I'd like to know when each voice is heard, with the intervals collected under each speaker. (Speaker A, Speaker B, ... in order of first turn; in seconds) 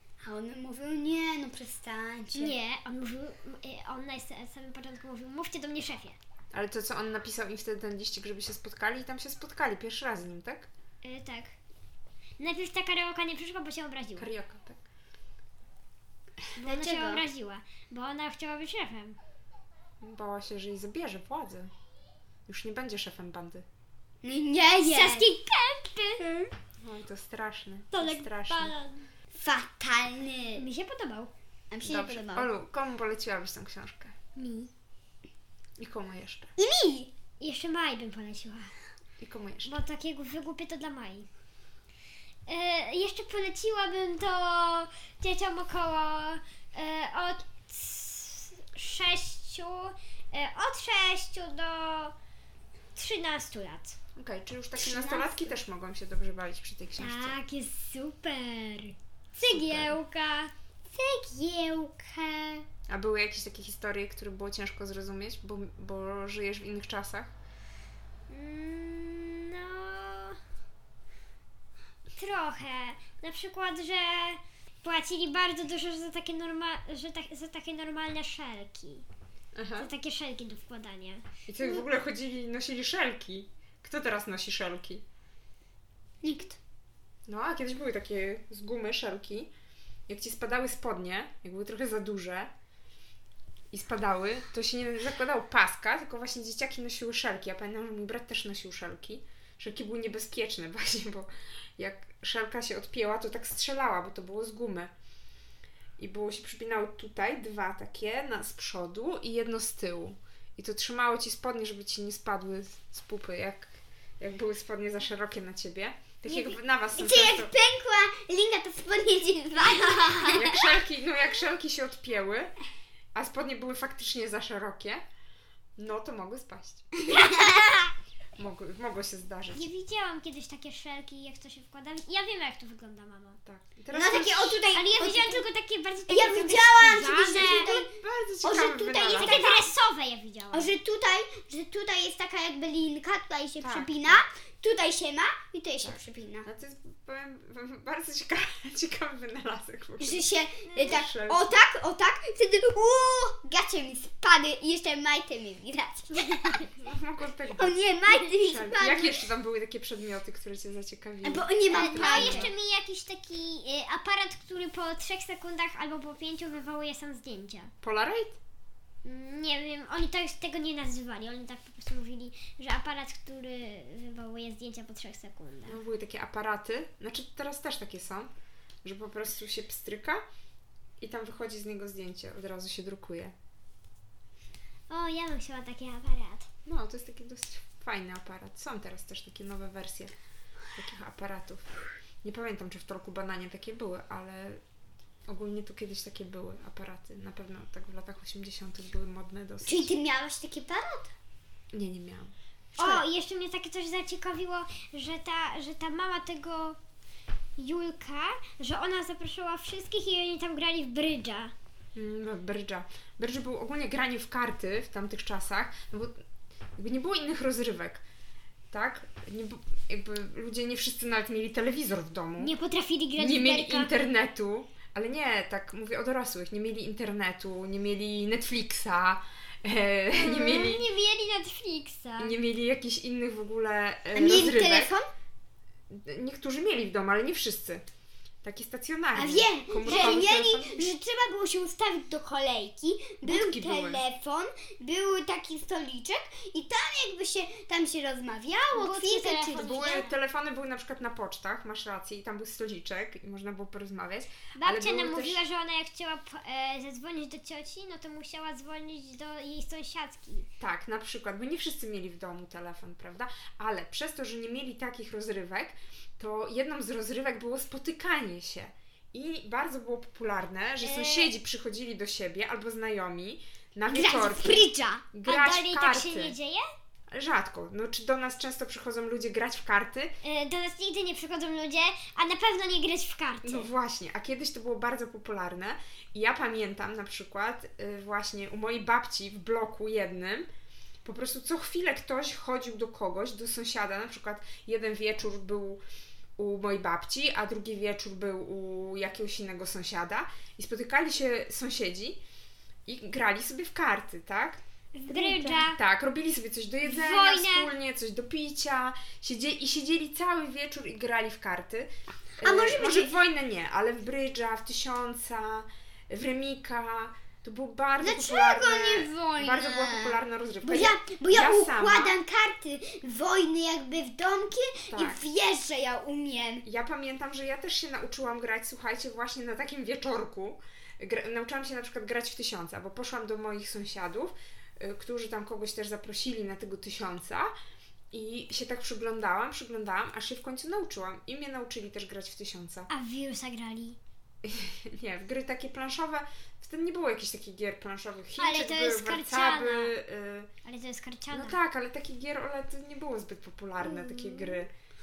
Speaker A: 0.2-2.5, 16.6-17.3, 24.2-25.3, 26.2-26.5, 29.4-30.7, 31.7-32.5, 36.6-37.1, 86.2-86.6, 117.0-120.7, 127.0-127.9, 133.9-135.5, 136.1-137.9, 138.4-139.7, 140.5-146.5, 150.0-156.7, 157.6-159.3, 161.2-162.5, 199.6-201.1, 234.1-235.1, 239.1-250.0, 273.9-275.1, 305.0-305.6, 312.4-313.2, 318.0-326.6
Speaker B: 2.3-6.2, 11.0-11.5, 12.4-14.3, 16.6-19.2, 24.8-26.2, 27.9-29.1, 30.6-31.3, 34.4-34.7, 37.4-38.7, 39.6-41.3, 42.5-52.1, 53.0-54.0, 54.8-55.2, 57.0-61.2, 62.3-62.6, 68.3-70.4, 72.2-79.0, 79.8-81.8, 116.3-116.5, 129.5-133.4, 134.7-137.8, 139.0-140.7, 150.6-151.0, 161.7-167.7, 169.0-175.8, 184.9-186.5, 202.8-206.8, 207.6-211.5, 222.4-223.9, 230.1-232.4, 239.8-240.2, 248.7-250.1, 254.6-260.5, 270.8-271.4, 275.2-276.6, 280.2-283.7, 305.1-305.8, 306.8-307.7, 342.9-344.0, 348.4-349.9, 350.6-351.6, 353.9-354.6
Speaker C: 6.5-10.7, 14.2-14.8, 20.0-21.7, 22.5-23.6, 26.8-28.8, 31.8-34.1, 35.8-36.5, 39.2-39.7, 54.2-57.4, 59.5-60.0, 62.9-67.3, 79.5-79.9, 81.5-85.0, 87.3-89.5, 90.1-92.5, 93.7-104.9, 106.0-117.5, 120.3-122.5, 123.2-125.0, 125.8-126.8, 128.4-129.7, 133.4-134.6, 137.4-139.5, 143.6-144.2, 145.8-150.2, 150.8-151.6, 156.8-162.5, 167.8-168.4, 175.7-178.3, 178.8-180.2, 181.0-183.3, 186.7-190.1, 190.8-191.6, 192.2-194.6, 195.3-199.9, 201.7-202.3, 211.9-216.2, 216.8-218.0, 218.7-222.5, 223.2-230.9, 232.2-235.0, 235.9-237.8, 238.4-240.9, 243.2-244.0, 249.6-255.4, 260.6-276.3, 277.1-280.1, 283.4-290.5, 291.0-295.8, 296.4-302.2, 302.9-304.6, 305.6-322.1, 324.9-325.2, 326.6-337.5, 338.1-342.9, 344.4-350.5, 351.3-354.7